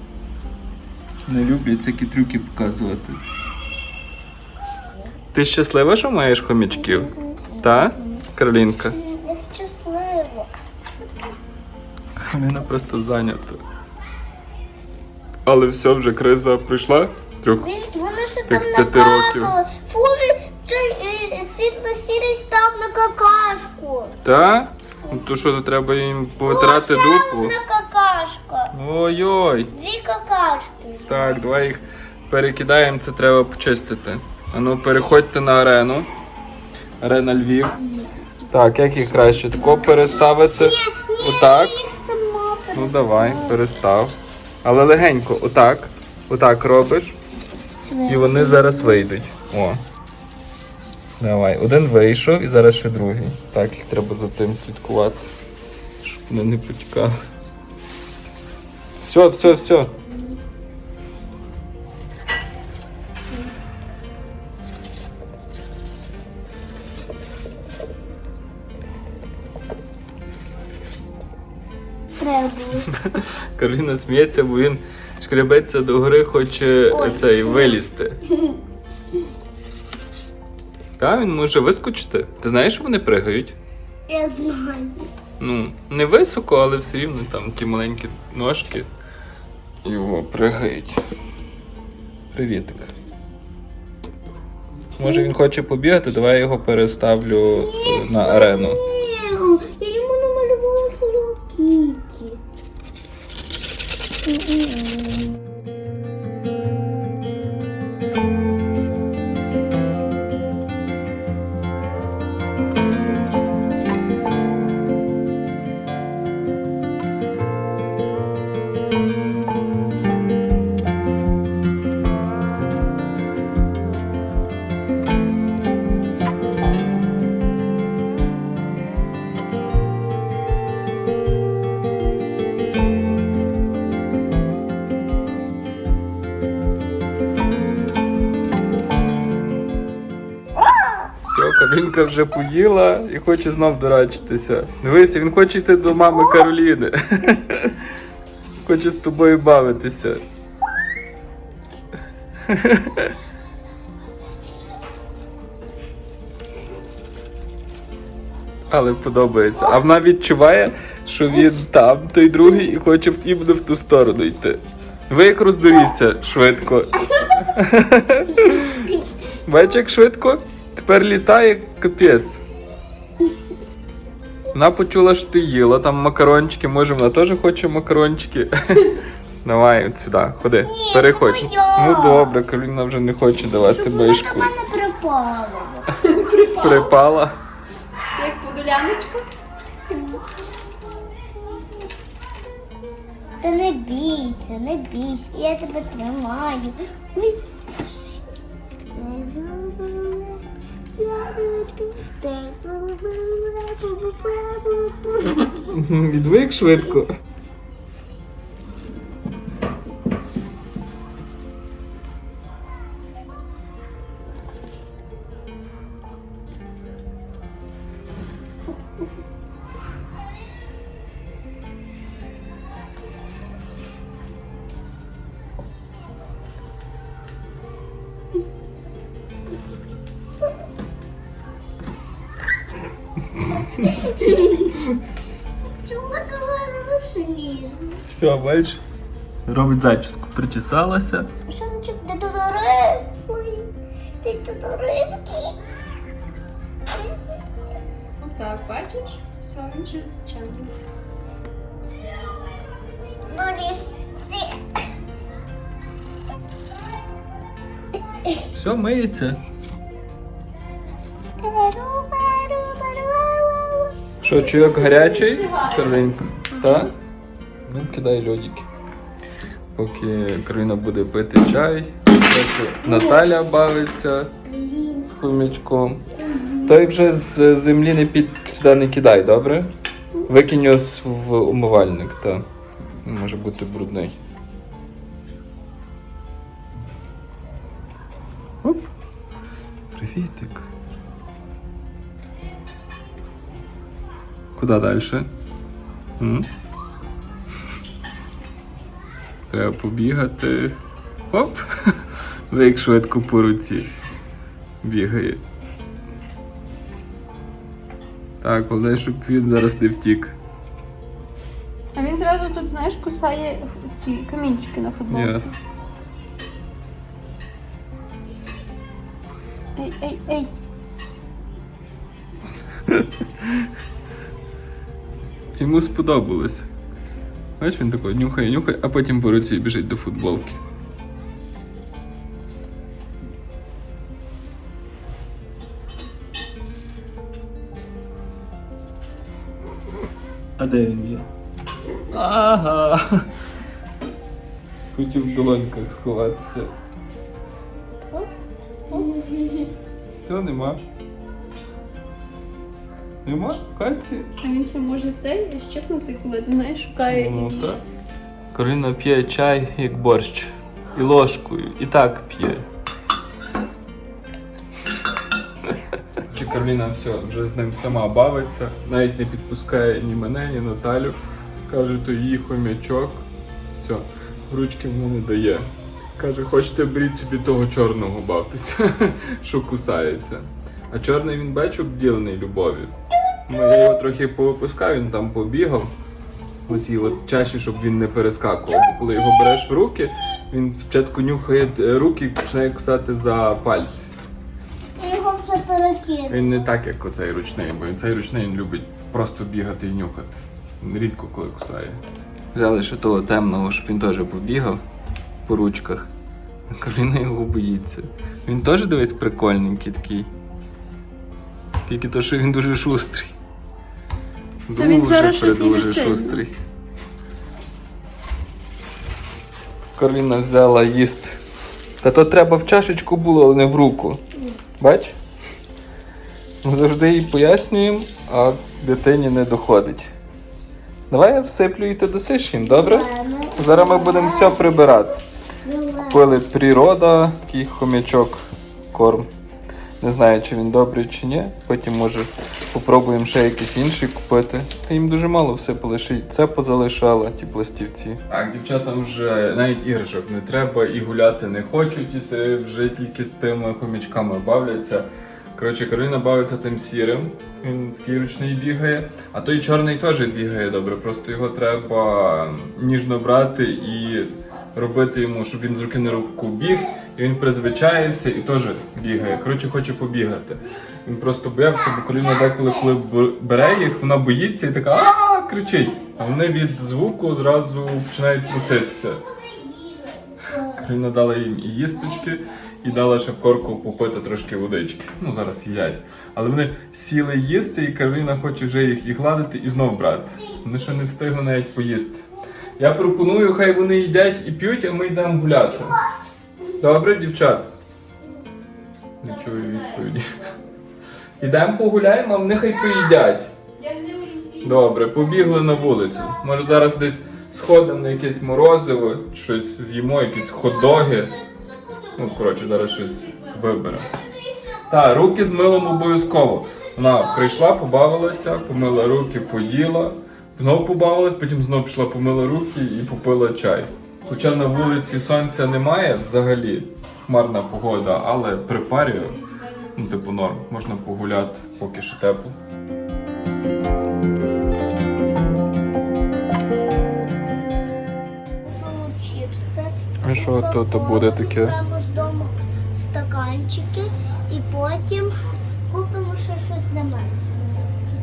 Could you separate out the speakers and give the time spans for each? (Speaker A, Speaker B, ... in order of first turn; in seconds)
Speaker A: 1.3-3.2, 5.3-9.0, 12.2-13.6, 15.5-17.7, 18.5-19.6, 24.2-27.6, 28.7-29.7, 31.1-36.1, 37.0-37.8, 38.5-41.8, 42.7-47.2, 48.1-49.8, 51.2-55.3, 56.0-57.1, 59.0-59.9, 72.9-78.2, 81.0-83.6, 85.4-88.9, 89.8-91.0, 92.3-92.9, 95.0-98.8, 141.2-147.9, 148.6-150.2, 152.4-153.1, 158.7-168.9, 169.5-172.4, 174.5-178.9, 179.4-184.5, 186.6-187.4, 205.7-207.1, 238.1-238.8, 239.5-241.3, 258.5-259.4, 264.2-266.9, 267.7-268.6, 269.8-274.3, 275.1-276.0, 276.6-279.7, 280.2-282.4, 283.0-284.2, 288.6-288.9, 289.9-290.7, 294.6-295.3, 296.2-296.5, 299.5-300.8, 301.3-303.9, 304.8-305.4, 308.4-310.4, 315.1-315.5, 322.9-323.7, 325.6-326.7, 327.6-330.6, 340.6-341.3, 342.1-343.3, 344.9-346.7, 350.2-350.8, 353.2-354.3, 357.1-357.8, 358.5-362.7, 365.7-382.9, 383.5-385.9, 386.7-394.1, 396.3-402.0, 402.5-404.8, 405.5-406.1, 406.7-410.3, 411.9-413.4, 414.7-416.5, 420.0-421.4, 422.0-424.2, 424.8-425.2, 426.6-430.1, 431.1-435.2, 436.1-439.3, 440.0-479.2, 480.7-492.2, 492.8-496.0, 496.8-497.7, 499.2-500.4, 501.4-503.5, 504.6-511.3, 512.1-514.1, 514.9-529.4, 530.0-532.6, 540.2-541.8
Speaker B: 6.7-8.2, 8.9-11.4, 17.6-24.2, 26.4-28.7, 29.7-31.4, 40.5-43.6, 47.9-49.1, 72.2-72.9, 76.9-78.6, 84.1-85.0, 95.0-95.3, 97.5-102.4, 104.2-105.4, 168.3-169.1, 180.5-182.4, 183.6-185.9, 189.9-190.3, 191.4-191.8, 193.4-198.3, 198.9-200.4, 201.0-205.7, 233.6-234.8, 235.8-238.0, 241.5-245.6, 253.1-254.8, 261.4-263.9, 266.6-266.9, 272.8-273.2, 274.4-275.2, 276.2-276.9, 348.9-349.7, 383.5-383.9, 388.7-389.5, 395.0-396.6, 432.6-435.0, 435.6-436.3, 471.9-473.0, 473.5-474.0, 475.2-476.8, 478.4-480.9, 490.4-490.7, 505.6-506.1, 510.6-512.6, 514.0-519.7, 538.6-545.3, 545.9-547.8
Speaker C: 186.0-186.9, 188.2-189.3, 248.2-250.8, 264.5-266.1, 312.0-315.6, 319.8-320.5, 354.4-357.7, 414.8-416.4, 499.3-500.6, 503.8-505.6, 512.5-513.8, 529.0-530.1